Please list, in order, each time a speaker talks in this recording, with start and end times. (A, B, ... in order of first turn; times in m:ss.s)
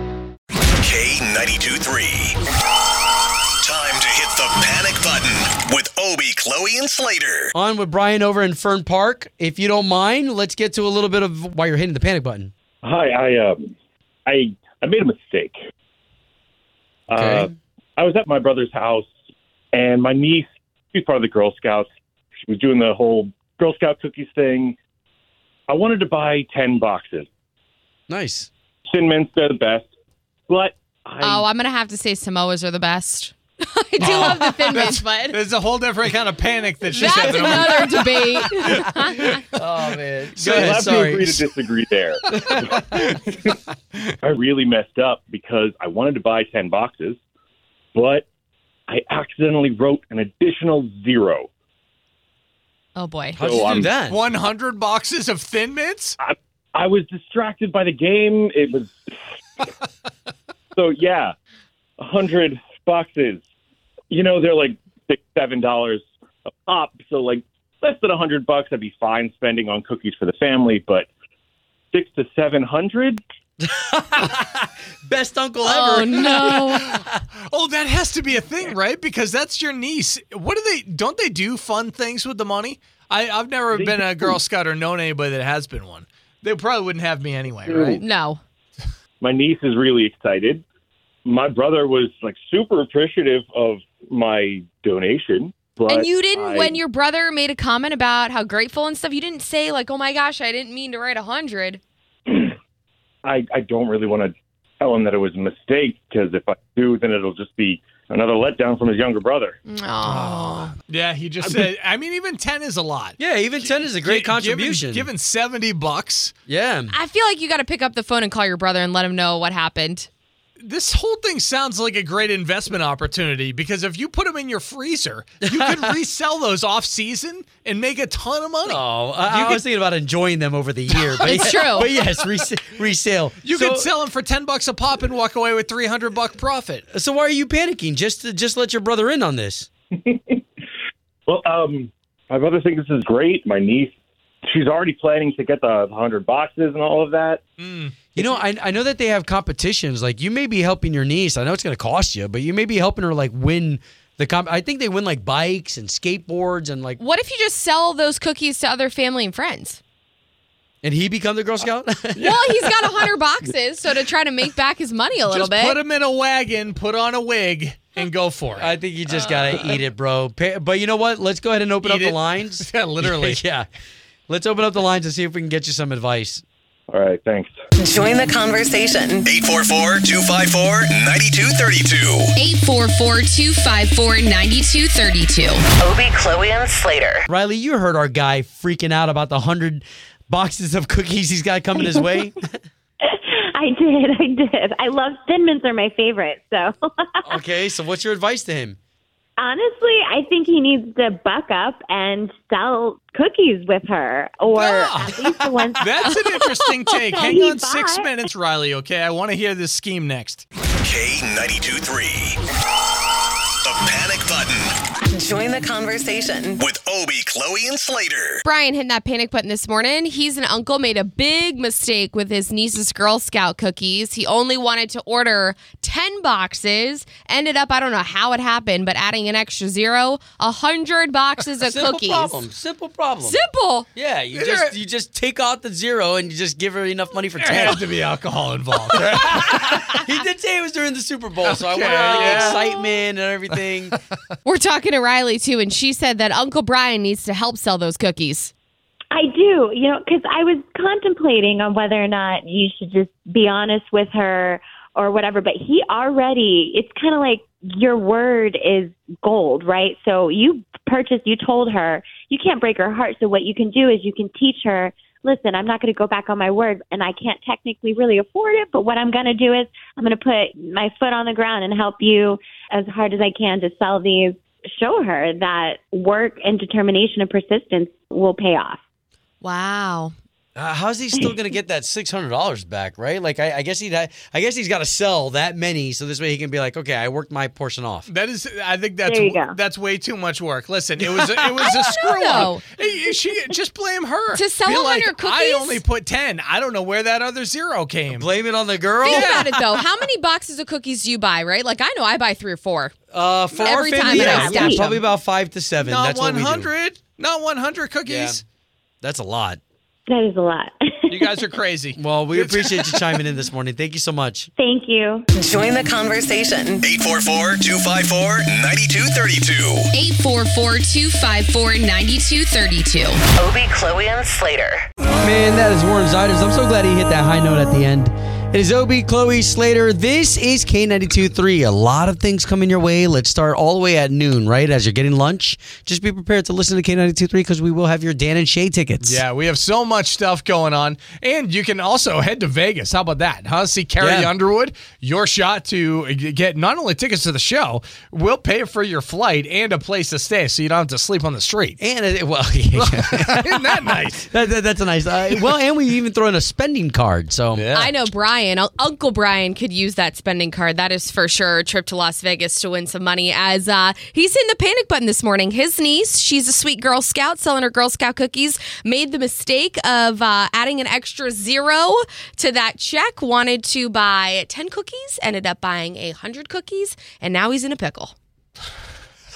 0:00.8-0:02.4 A
0:03.6-0:07.5 A
0:07.5-0:12.5 B
0:12.8-0:13.7 C
0:14.3-0:15.6 C
0:17.1-0:19.1 C
0:17.1-0:17.5 B
0:19.7-0:21.9 C
0:22.5-0:24.7 C
0:25.7-0:27.3 C
0:28.1-0:28.5 B
0:28.9-0:29.9 C
0:30.5-0:31.4 C
0:31.2-0:35.4 D
0:34.0-0:38.6 E
0:36.9-0:39.4 D
0:37.2-0:37.6 B
0:39.5-0:41.4 B
0:40.4-0:40.9 E
0:40.4-0:43.5 C
0:42.3-0:43.0 B
0:44.2-0:47.2 C
0:47.9-0:48.2 C
0:48.9-0:51.5 C
0:53.0-0:53.8 D
0:53.4-0:54.2 B
0:53.4-0:53.9 C
0:53.8-0:56.2 E
0:56.2-0:59.1 C
1:00.7-1:01.3 C
1:02.0-1:03.4 C
1:04.1-1:11.1 C
1:11.9-1:13.2 C
1:13.6-1:17.1 B
1:15.6-1:16.9 D
1:17.5-1:28.0 E
1:23.7-1:24.4 C
1:27.7-1:28.0 C
1:28.0-1:28.4 D
1:29.2-1:30.6 C
1:31.2-1:36.8 C
1:35.9-1:41.8 D
1:42.3-1:42.5 C
1:43.2-1:49.6 C
1:49.7-1:50.7 D
1:50.2-1:56.3 E
1:53.2-1:55.1 B
1:56.5-1:56.9 B
1:56.9-2:00.1 D
2:00.6-2:09.6 E
2:08.6-2:13.9 B
2:11.2-2:11.9 D
2:11.2-2:11.9 E
2:13.4-2:16.8 E
2:16.9-2:19.7 B
2:20.0-2:20.4 C
2:21.3-2:23.9 C
2:24.5-2:27.4 C
2:27.6-2:28.4 E
2:28.2-2:37.0 B
2:37.0-2:39.8 D
2:40.8-2:42.7 B
2:42.2-2:45.8 D
2:45.3-2:49.8 E
2:48.5-2:53.7 B
2:51.8-2:53.4 E
2:54.3-2:56.4 B
2:56.9-2:57.5 C
2:57.8-2:59.3 F
2:59.2-3:02.3 A
3:02.4-3:05.6 D
3:05.8-3:07.2 F
3:07.3-3:12.6 B
3:13.6-3:16.7 G
3:17.2-3:18.8 B
3:19.4-3:25.8 G
3:24.5-3:25.2 E
3:25.4-3:25.7 B
3:25.8-3:30.4 E
3:27.1-3:28.1 G
3:30.8-3:32.4 A
3:33.6-3:34.7 A
3:35.1-3:36.6 F
3:36.6-3:38.4 A
3:38.4-3:52.4 D
3:51.6-3:53.4 B
3:53.2-3:53.9 D
3:53.9-3:57.8 B
3:54.3-3:54.7 E
3:57.4-4:00.0 E
3:59.1-4:04.0 B
4:01.4-4:02.8 E
4:02.1-4:02.4 D
4:04.4-4:08.5 D
4:09.1-4:38.8 G
4:39.4-4:40.1 D
4:40.6-4:48.1 B
4:48.1-4:58.3 E
4:49.1-4:49.6 G
4:51.6-4:52.6 D
4:54.3-4:55.8 D
4:58.1-4:59.5 B
4:59.0-5:02.9 D
4:59.0-4:59.5 E
5:03.1-5:06.7 B
5:03.6-5:04.9 D
5:04.2-5:04.9 G
5:05.8-5:08.4 E
5:08.0-5:08.4 B
5:09.0-5:09.6 B
5:10.1-5:11.3 G
5:11.1-5:13.2 E
5:11.9-5:14.5 B
5:14.6-5:15.2 G
5:15.3-5:16.8 F
5:16.8-5:19.9 A
5:19.9-5:23.2 D
5:23.4-5:24.8 F
5:25.2-5:39.2 B
5:39.0-5:51.8 E
5:44.0-5:44.3 B
5:51.8-5:57.7 B
5:52.7-5:54.2 E
5:57.5-5:57.9 E
5:57.7-6:18.1 D